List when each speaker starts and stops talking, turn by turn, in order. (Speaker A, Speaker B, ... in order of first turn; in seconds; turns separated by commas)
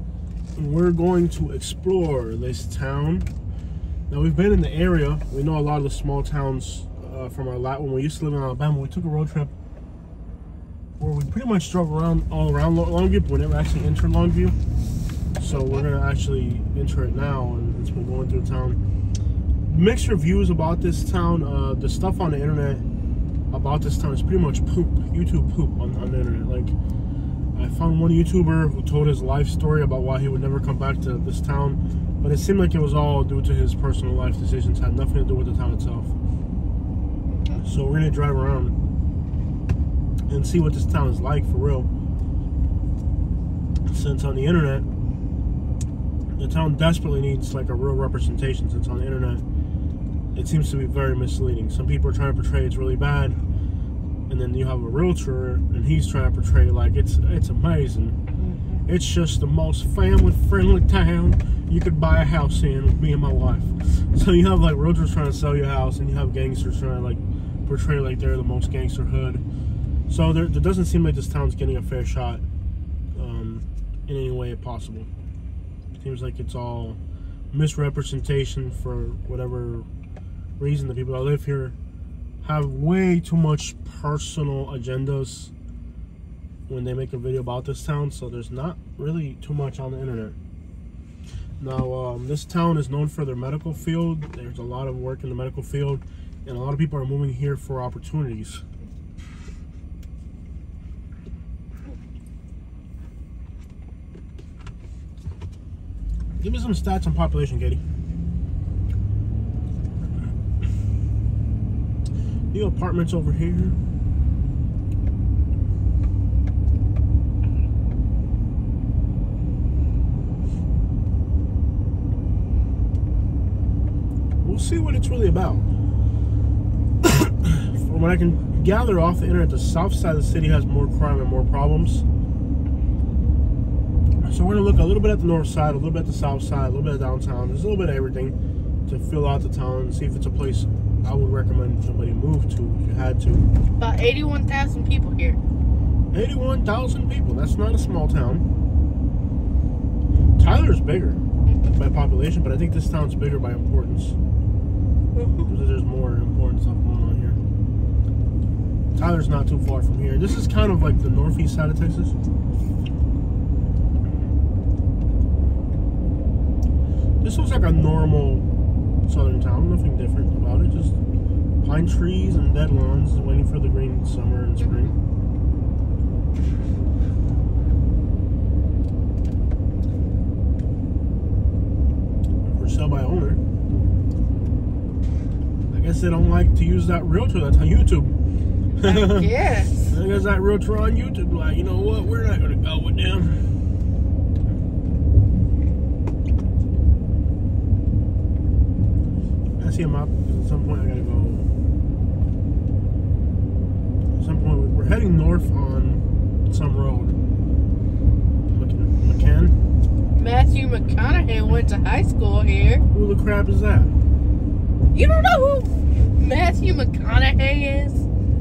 Speaker A: 0.6-3.3, Speaker A: 4.1-9.5, Speaker A: 11.0-14.6, Speaker A: 15.3-18.8, Speaker B: 15.5-15.8, Speaker A: 19.6-22.8, Speaker A: 23.5-26.8, Speaker A: 27.5-36.1, Speaker B: 37.3-37.6, Speaker A: 37.6-38.8, Speaker A: 40.3-41.9, Speaker A: 43.9-44.9, Speaker A: 46.4-49.4, Speaker A: 50.3-53.4, Speaker A: 54.3-58.2, Speaker B: 58.4-58.8, Speaker A: 58.9-69.4, Speaker A: 70.1-72.4, Speaker A: 73.1-75.1, Speaker A: 76.0-77.0, Speaker A: 77.5-79.9, Speaker A: 80.6-81.7, Speaker A: 82.4-85.5, Speaker A: 86.7-90.3, Speaker A: 91.6-98.6, Speaker A: 106.4-107.8, Speaker A: 112.5-113.8, Speaker A: 124.4-125.6, Speaker A: 127.0-132.0, Speaker A: 134.2-138.3, Speaker A: 138.9-143.4, Speaker B: 143.8-145.4, Speaker A: 146.1-148.4, Speaker A: 150.4-151.2, Speaker B: 151.4-151.8, Speaker A: 151.7-154.2, Speaker B: 155.1-155.5, Speaker A: 155.5-157.4, Speaker A: 158.9-162.1, Speaker A: 167.2-168.4, Speaker A: 169.1-170.9, Speaker A: 171.6-174.9, Speaker A: 182.4-183.4, Speaker A: 185.7-188.1, Speaker B: 188.8-190.0, Speaker A: 188.8-189.3, Speaker A: 189.9-193.5, Speaker A: 199.6-201.5, Speaker A: 204.1-207.1, Speaker A: 208.5-209.6, Speaker B: 210.1-212.8, Speaker A: 212.9-213.9, Speaker B: 214.9-218.0